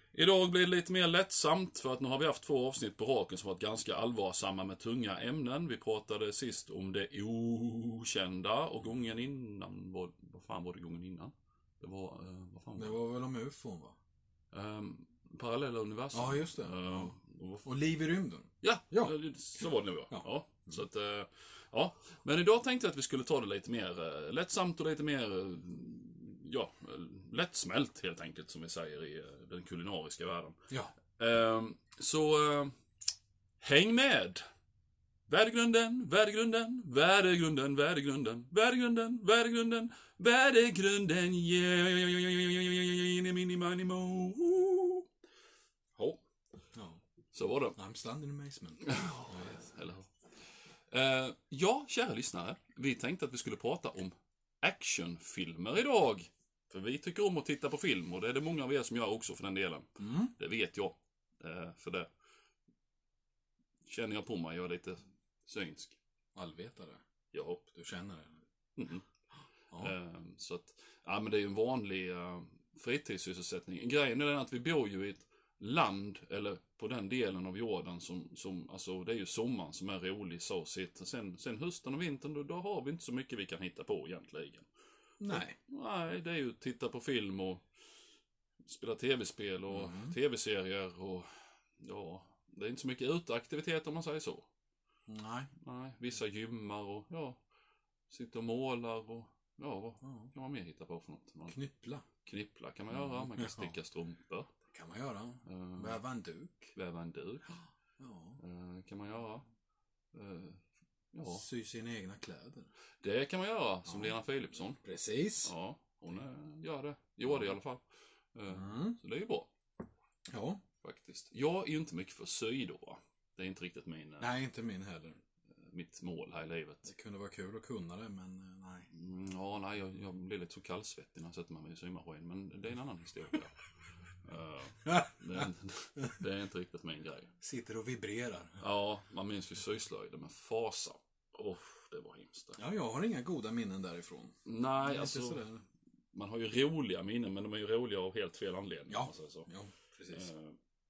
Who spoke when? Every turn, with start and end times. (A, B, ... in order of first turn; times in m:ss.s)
0:00.1-0:13.0 A
0:12.8-0:14.0 B
0:14.5-0:17.7 A
0:16.1-0:17.1 B
0:17.6-0:19.1 B
0:18.6-0:30.6 A
0:31.2-0:32.8 A
0:33.6-0:34.4 A
0:35.3-0:45.1 A
0:46.0-0:46.2 A
0:46.7-0:47.0 B
0:47.3-0:47.8 A
0:47.8-0:49.6 B
0:48.8-0:50.1 A
0:50.9-1:02.1 A
1:00.0-1:00.3 B
1:03.8-1:06.0 A
1:06.3-1:07.0 B
1:07.3-1:07.6 A
1:07.7-1:08.4 B
1:08.8-1:09.1 A
1:09.8-1:24.7 A
1:25.2-1:25.6 B
1:25.3-1:27.6 A
1:28.6-1:34.5 A
1:29.7-1:30.1 B
1:35.1-1:35.5 B
1:35.6-1:37.4 A
1:38.1-1:41.6 A
1:40.0-1:40.3 B
1:41.5-1:42.1 B
1:42.2-1:44.5 A
1:42.9-1:43.8 B
1:44.7-1:46.7 B
1:45.4-1:46.0 A
1:46.7-1:47.6 A
1:48.0-1:48.4 B
1:48.4-1:49.4 A
1:50.1-1:50.6 A
1:51.1-1:51.4 A
1:51.2-1:52.7 B
1:53.0-1:54.8 A
1:53.8-1:54.2 B
1:54.7-1:55.5 B
1:55.4-1:59.5 A
1:58.5-1:59.0 B
2:00.3-2:00.6 B
2:00.8-2:04.3 A
2:04.2-2:05.2 B
2:05.5-2:06.9 A
2:06.8-2:08.9 B
2:08.9-2:17.3 A
2:14.9-2:15.4 B
2:17.4-2:18.6 B
2:18.6-2:22.6 A
2:22.6-2:25.6 B
2:24.4-2:25.4 A
2:26.1-2:29.5 A
2:28.9-2:30.3 B
2:30.1-2:30.6 A